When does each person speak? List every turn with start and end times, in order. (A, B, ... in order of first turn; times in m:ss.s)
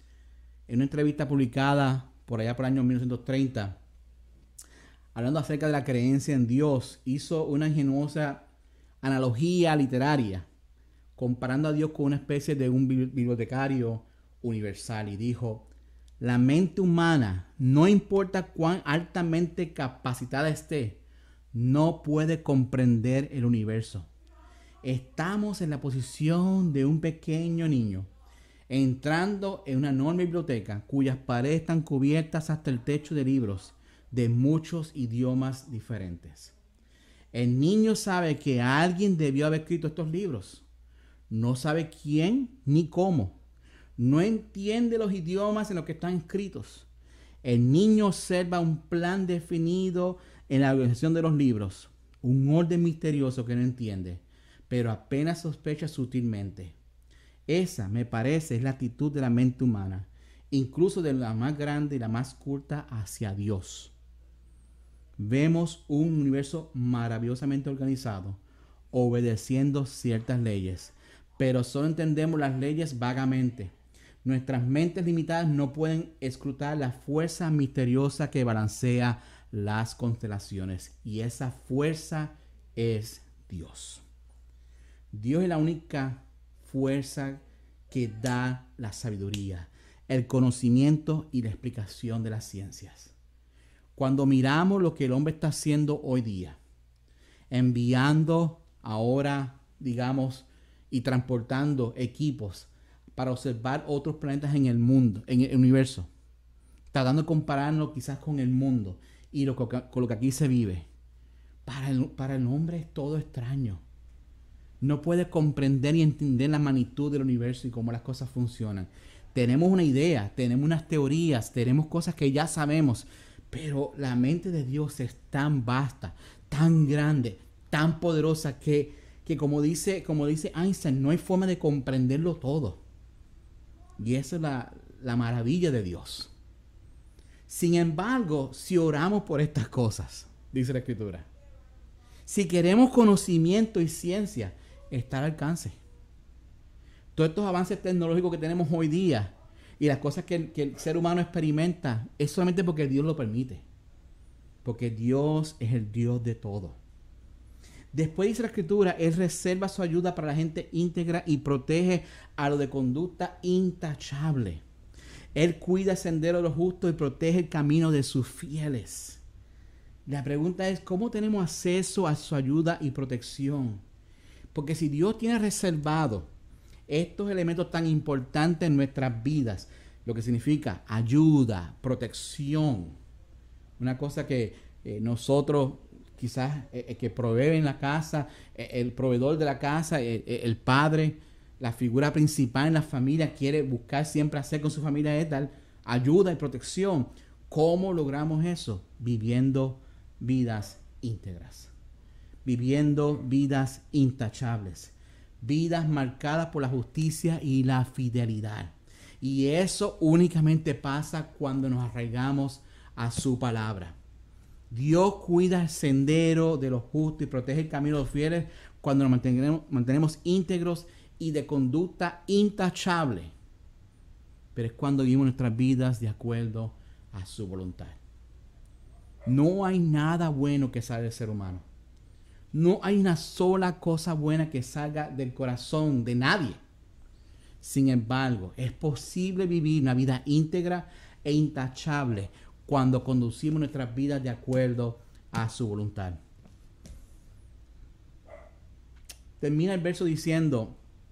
0:00.7-0:03.8 A
0:05.1-0:08.4 A
0:09.0-0:10.5 A
0:11.2-0:21.0 A
0:21.5-0:24.1 A
0:24.8-0:28.1 A
0:28.7-0:36.6 A
0:37.3-0:40.6 A
0:41.3-0:43.4 A
0:44.0-0:46.9 A
0:47.4-0:56.8 A
0:57.5-1:03.9 A
1:05.2-1:08.4 A
1:08.9-1:13.7 A
1:14.2-1:24.0 A
1:25.1-1:33.1 A
1:34.0-1:36.6 A
1:37.5-1:46.1 A
1:46.9-1:50.9 A
1:51.7-1:53.8 A
1:54.8-2:12.8 A
2:14.0-2:16.3 A
2:17.5-2:21.3 A
2:22.3-2:25.8 A
2:27.2-2:33.6 A
2:34.6-2:36.8 A
2:37.9-2:44.6 A
2:45.4-2:49.2 A
2:50.1-2:53.8 A
2:54.5-2:56.3 A
2:56.9-3:03.0 A
3:03.8-3:21.7 A
3:22.4-3:34.0 A
3:34.7-3:43.3 A
3:44.6-3:48.0 A
3:49.3-3:51.7 A
3:52.5-3:56.6 A
3:57.6-4:06.2 A
4:09.4-4:10.8 A